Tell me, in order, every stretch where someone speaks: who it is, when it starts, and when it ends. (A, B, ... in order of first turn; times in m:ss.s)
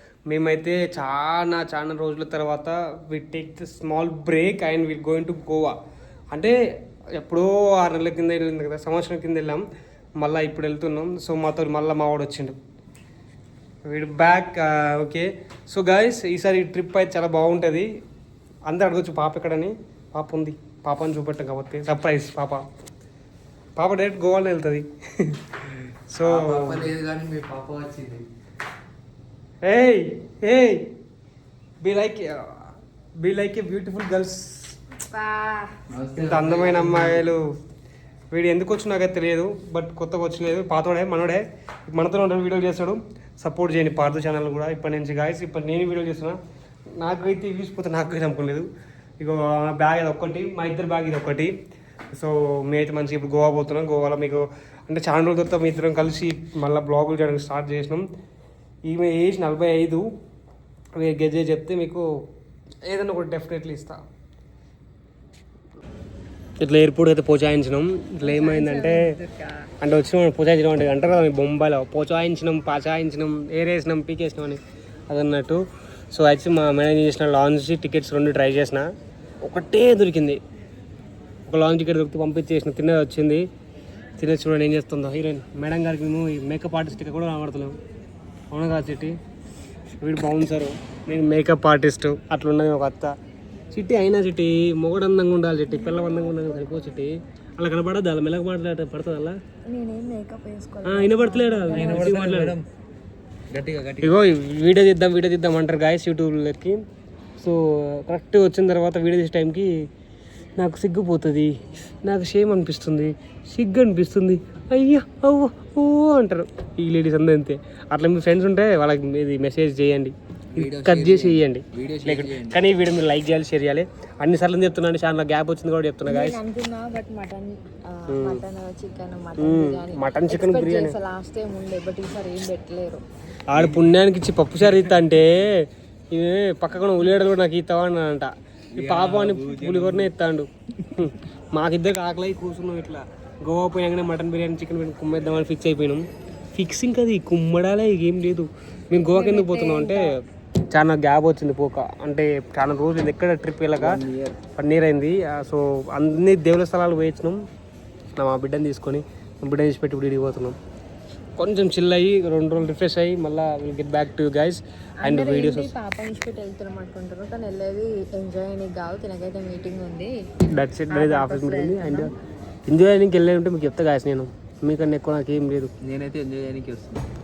0:00.3-0:05.8 A
0:07.2-0:09.6 A
0:10.2-0:12.6 A
0:13.9-0:17.9 A
0:18.7-0:22.6 A
0:23.8-0:25.4 A
0:26.1-0:26.8 A
0:26.2-0:28.2 B
0:29.6-0:30.8 A
0:31.8-0:34.8 A
0:35.1-0:35.7 C
0:35.9-0:37.3 B
0:36.2-0:37.4 A
0:38.3-0:46.4 A
0:47.0-0:48.7 A
0:49.2-0:51.5 A
0:52.1-0:58.1 A
0:58.8-1:00.1 A
1:01.0-1:02.0 A
1:02.8-1:04.0 A
1:06.6-1:09.1 A
1:08.2-1:09.7 C
1:09.8-1:18.9 A
1:19.4-1:20.4 A
1:21.5-1:23.4 A
1:24.2-1:27.8 A
1:28.5-1:29.2 A
1:30.0-1:33.1 A
1:33.7-1:39.4 A
1:35.7-1:36.8 C
1:39.7-1:42.0 C
1:40.8-1:42.6 A
1:41.7-1:42.6 B
1:43.5-1:44.1 B
1:44.0-1:46.8 A
1:47.4-1:49.7 A
1:50.6-2:06.4 A
2:00.5-2:02.6 B
2:06.1-2:13.0 C
2:08.1-2:08.4 A
2:09.4-2:11.0 A
2:13.5-2:30.2 A
2:18.7-2:20.1 B
2:29.1-2:30.1 C
2:30.7-2:34.0 A
2:33.8-2:34.4 B
2:34.5-2:37.4 A
2:38.2-2:40.6 A
2:41.4-2:45.7 A
2:45.0-2:50.1 C
2:50.5-2:52.1 A
2:50.9-2:52.1 C
2:52.7-2:55.7 A
2:55.8-2:57.0 B